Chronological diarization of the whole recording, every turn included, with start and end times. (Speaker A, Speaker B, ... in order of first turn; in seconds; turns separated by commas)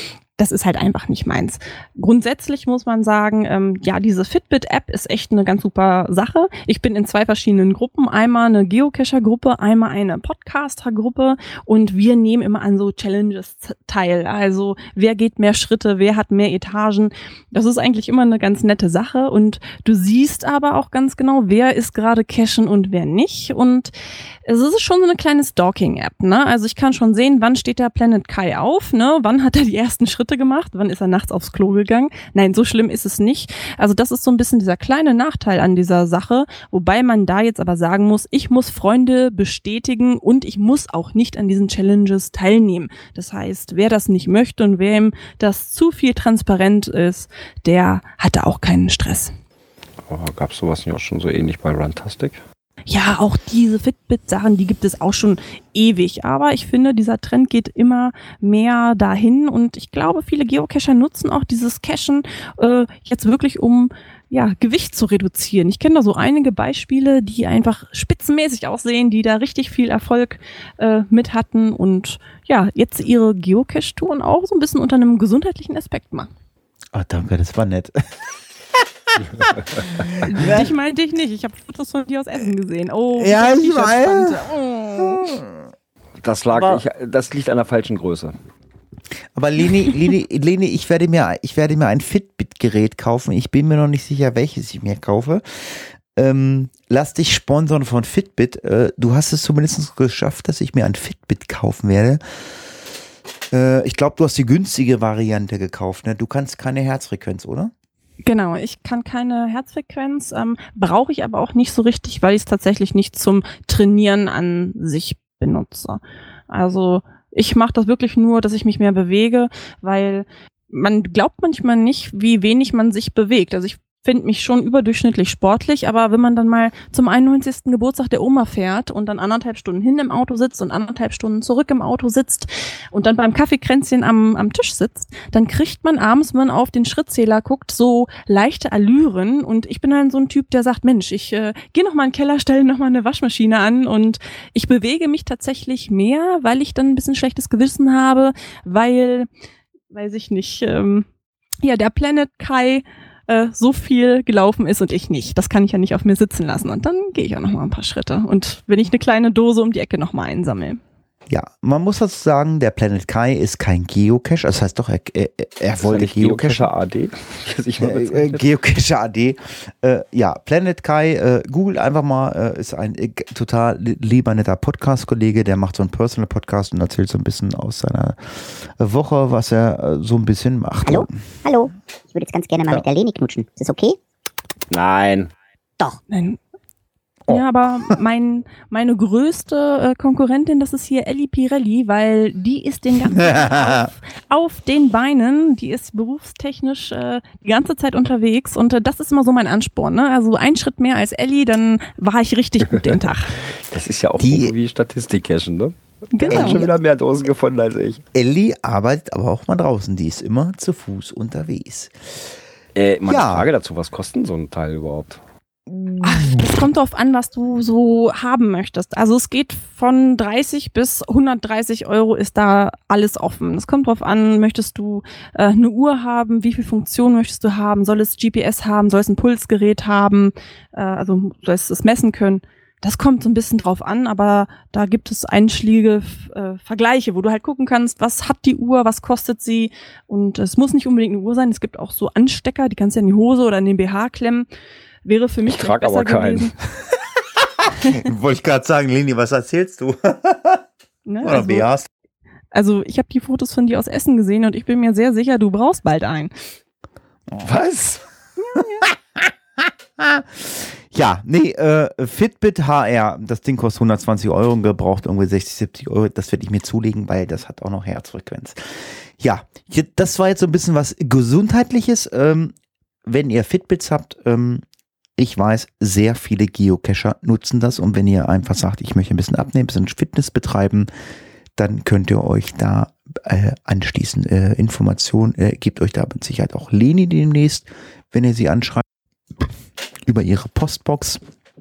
Speaker A: 0.4-23.9, Speaker A: 24.5-49.3, Speaker B: 50.1-52.4, Speaker A: 52.9-76.3, Speaker C: 76.9-80.7, Speaker A: 80.2-85.3, Speaker C: 83.2-84.4, Speaker C: 85.2-85.5, Speaker B: 86.2-88.3, Speaker C: 86.5-86.8, Speaker C: 89.3-102.2, Speaker C: 103.5-107.7, Speaker A: 108.2-149.3, Speaker A: 149.9-151.1, Speaker A: 151.6-160.8, Speaker C: 161.3-166.7, Speaker B: 165.8-168.5, Speaker C: 167.8-181.2, Speaker D: 180.9-184.0, Speaker B: 184.7-185.3, Speaker A: 186.1-186.4, Speaker A: 187.3-203.4, Speaker C: 193.2-193.9, Speaker B: 203.6-208.0, Speaker C: 204.2-204.5, Speaker A: 206.1-206.7, Speaker C: 206.3-206.7, Speaker C: 208.1-212.3, Speaker B: 212.8-215.2, Speaker C: 213.1-213.5, Speaker C: 215.7-216.5, Speaker A: 216.0-244.5, Speaker A: 245.1-246.5, Speaker B: 245.5-246.5, Speaker C: 247.4-250.6, Speaker A: 251.1-251.7, Speaker C: 251.2-251.9, Speaker A: 252.5-256.3, Speaker C: 257.3-272.5, Speaker C: 273.1-274.6, Speaker C: 275.2-280.9, Speaker C: 281.6-288.9, Speaker C: 290.1-291.2